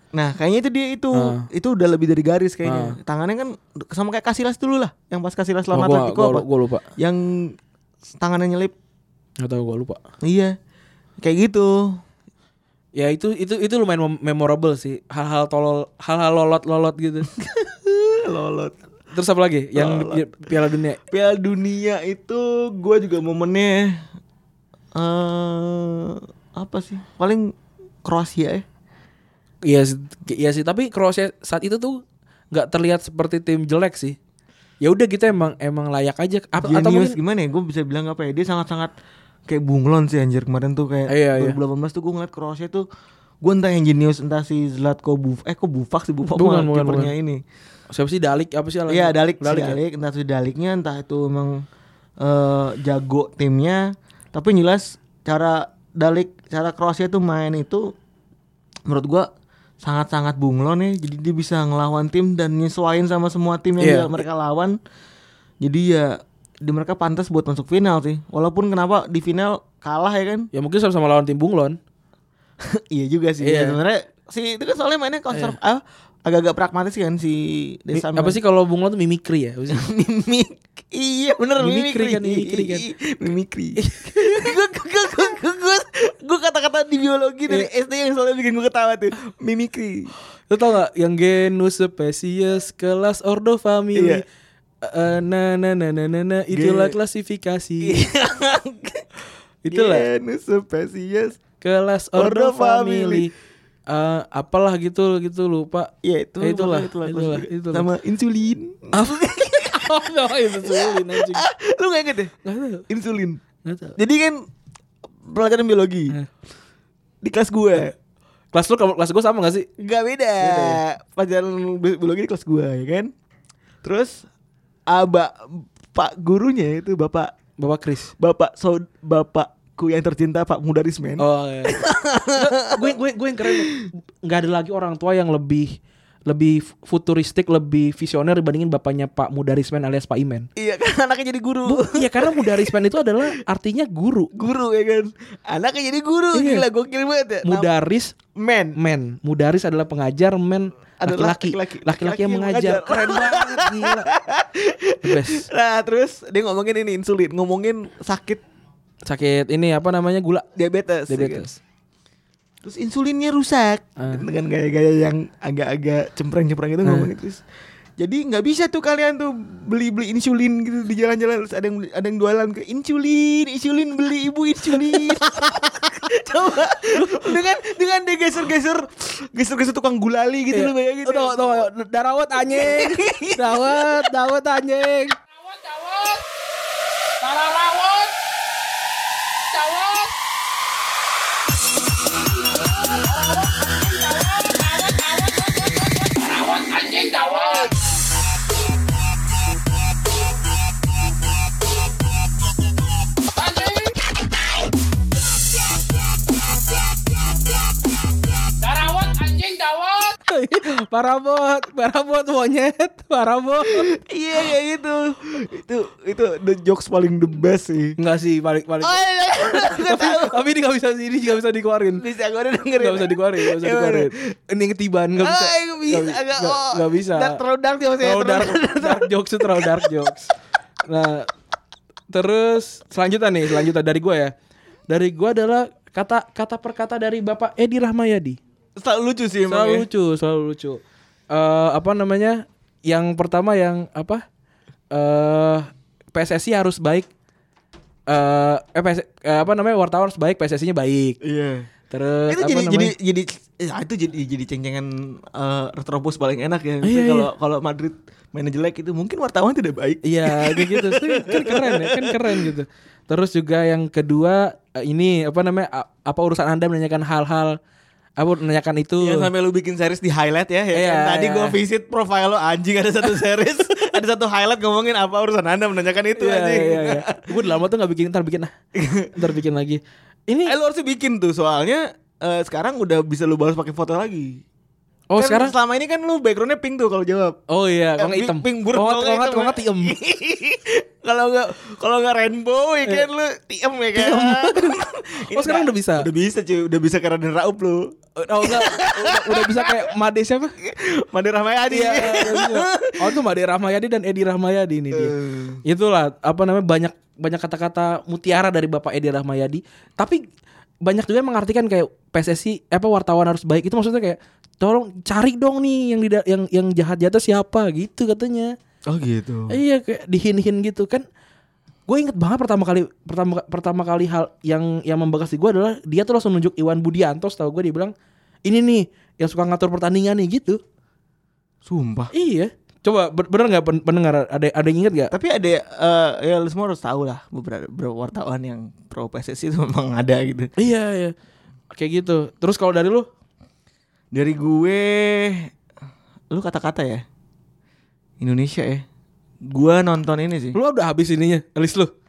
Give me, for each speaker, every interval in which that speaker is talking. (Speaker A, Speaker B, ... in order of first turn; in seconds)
Speaker A: 0.1-6.5, 7.0-7.5, 8.1-8.7, 10.2-10.6, 11.2-12.0, 17.4-18.8, 19.8-20.3, 21.1-24.0, 24.9-27.5, 28.0-28.6, 36.6-38.9, 39.5-42.9, 43.4-47.4, 48.9-51.6, 52.2-57.9, 58.9-59.3, 59.8-64.8, 65.6-70.5, 72.6-78.4, 79.7-90.1, 94.0-94.2, 96.5-97.0, 97.8-99.0, 99.7-101.4, 102.2-103.3, 106.0-112.3, 112.9-113.4, 114.0-114.5, 115.3-116.1, 117.2-117.9, 119.8-123.1, 123.8-124.3, 124.9-127.3, 128.2-133.8, 140.6-142.8, 144.3-147.7, 148.3-148.8, 151.0-158.4, 160.6-161.5, 162.6-167.4, 168.0-181.7, 182.4-184.1, 213.6-218.0, 218.8-220.4, 222.0-224.1, 225.2-230.1, 238.8-239.9, 251.2-251.7, 252.3-262.5, 269.0-277.2, 278.8-279.1, 280.5-284.4, 285.2-287.4, 288.0-299.9, 300.6-303.2, 304.9-305.6, 318.9-319.6, 331.6-332.1, 335.1-340.5, 344.1-345.5, 346.3-347.0, 348.2-348.9, 349.5-350.6
Speaker B: 1.1-1.4, 2.6-3.0, 5.7-6.8, 9.4-10.0, 13.0-17.3, 19.1-21.0, 29.7-32.0, 32.5-34.2, 34.8-37.2, 41.1-41.6, 46.4-47.1, 47.9-49.8, 63.8-64.1, 70.5-71.8, 73.4-73.8, 75.3-75.6, 77.9-79.8, 81.6-82.9, 83.8-84.5, 90.5-94.2, 94.8-98.0, 99.7-100.1, 101.6-103.3, 103.9-107.9, 108.9-111.5, 112.5-112.8, 113.7-114.0, 118.5-119.7, 120.4-120.8, 127.6-128.1, 131.2-131.8, 132.3-140.5, 141.7-144.3, 146.3-146.7, 147.4-148.2, 148.8-154.1, 155.0-155.5, 159.1-160.4, 161.1-161.6, 164.0-164.2, 166.8-167.1, 174.7-175.9, 176.9-177.3, 180.5-185.2, 210.3-213.9, 218.0-222.0, 222.8-227.4, 228.0-230.3, 230.9-231.3, 232.1-234.3, 234.9-238.4, 239.5-244.2, 244.9-247.1, 248.1-251.2, 251.9-252.9, 256.8-257.3, 260.1-267.6, 268.2-269.3, 270.7-271.6, 276.2-278.5, 279.1-280.5, 285.1-285.5, 287.5-289.9, 293.9-294.8, 295.3-296.1, 298.2-300.6, 301.7-305.1, 305.6-310.2, 310.8-318.5, 319.5-321.0, 321.9-327.9, 328.4-330.6, 332.1-335.1, 340.6-341.1, 341.7-343.1, 350.5-351.9
Speaker C: 185.3-186.2, 187.2-188.1, 189.5-190.1, 192.2-197.7, 203.3-203.9, 208.6-210.2